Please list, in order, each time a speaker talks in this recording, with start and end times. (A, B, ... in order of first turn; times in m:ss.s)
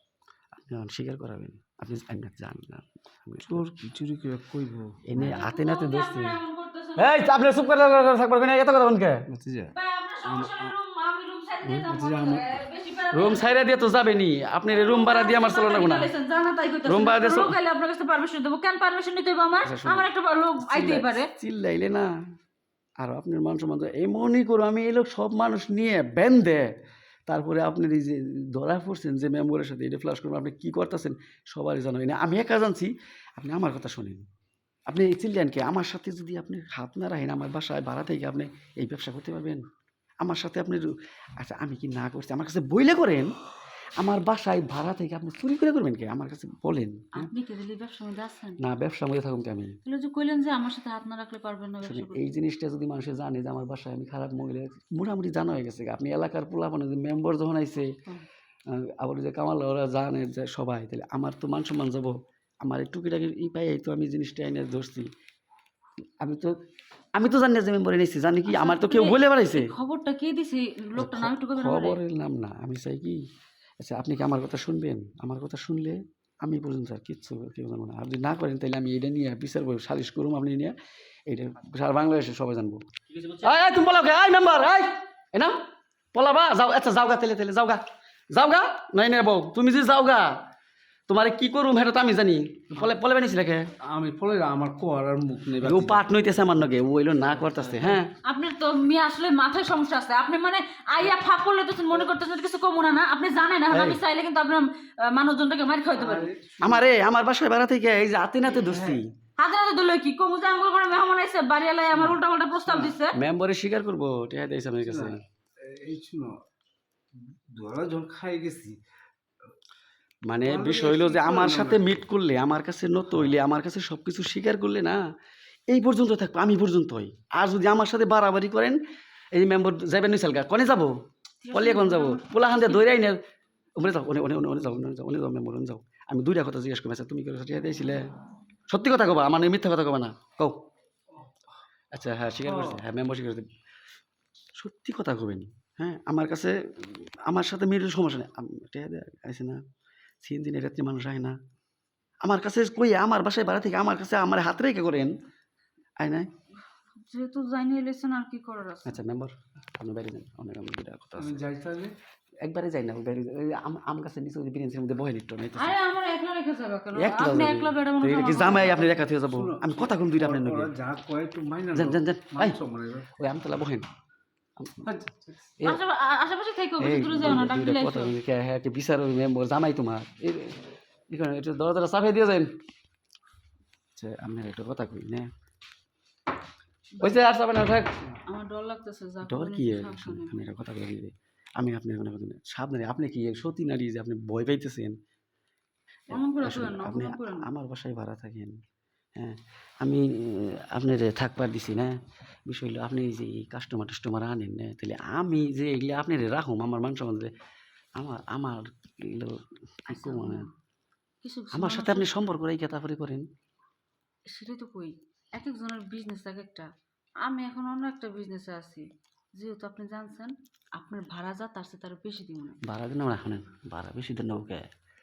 0:00.5-0:03.7 A
0:03.5-0:05.0 B
0:05.0-0:06.4 A
0:05.1-0:07.6 C
0:07.0-0:09.2 A
0:09.3-0:10.8 B
0:09.7-0:13.6 C
0:11.8-0:12.5 B
0:13.1-0:16.1 A
0:14.7-0:21.3 C
0:16.8-0:17.6 A
0:19.6-0:20.1 A
0:20.6-0:22.1 A
0:23.0-0:26.7 A
0:27.3-0:34.2 A
0:34.9-0:39.6 A
0:40.2-0:43.3 A
0:44.0-0:47.3 A
0:47.1-0:48.6 C
0:48.6-0:49.7 A
0:49.8-0:52.3 C
0:51.8-0:58.0 A
0:58.7-1:05.1 A
1:06.2-1:06.6 A
1:07.2-1:09.7 A
1:08.5-1:12.0 C
1:11.0-1:13.2 A
1:13.8-1:20.8 A
1:21.3-1:25.6 A
1:26.1-1:30.4 A
1:31.1-1:33.7 A
1:33.8-1:36.0 B
1:35.6-1:38.1 A
1:37.5-1:38.0 B
1:38.2-1:46.3 C
1:43.7-1:44.0 A
1:45.9-1:46.9 B
1:46.6-1:49.1 A
1:48.5-1:49.0 B
1:49.4-1:53.2 C
1:52.0-1:53.0 B
1:53.1-1:55.2 A
1:54.9-1:56.4 B
1:57.2-1:58.8 B
2:00.3-2:05.0 A
2:00.4-2:01.9 B
2:05.7-2:08.8 A
2:09.3-2:11.0 A
2:11.4-2:12.9 C
2:11.5-2:13.2 A
2:13.8-2:18.1 A
2:18.7-2:20.6 A
2:21.9-2:23.5 A
2:22.4-2:22.8 B
2:24.6-2:29.6 A
2:30.2-2:31.4 A
2:32.2-2:35.1 A
2:36.0-2:36.3 A
2:37.0-2:39.0 C
2:38.8-2:41.4 A
2:41.2-2:42.0 B
2:42.4-2:45.8 A
2:45.6-2:49.1 C
2:46.9-2:50.7 A
2:49.2-2:53.1 B
2:51.7-2:52.6 A
2:53.1-2:53.9 A
2:54.6-2:54.9 A
2:54.8-2:55.5 B
2:55.6-2:58.2 C
2:56.8-3:02.5 A
3:04.0-3:05.3 A
3:07.0-3:08.0 A
3:08.2-3:10.4 C
3:09.2-3:15.0 A
3:16.1-3:17.5 C
3:16.1-3:18.6 A
3:19.2-3:22.0 A
3:22.5-3:27.3 A
3:28.0-3:30.5 A
3:29.9-3:30.5 C
3:31.2-3:32.1 C
3:31.5-3:33.3 A
3:34.3-3:36.7 C
3:37.2-3:42.6 C
3:42.6-3:44.7 A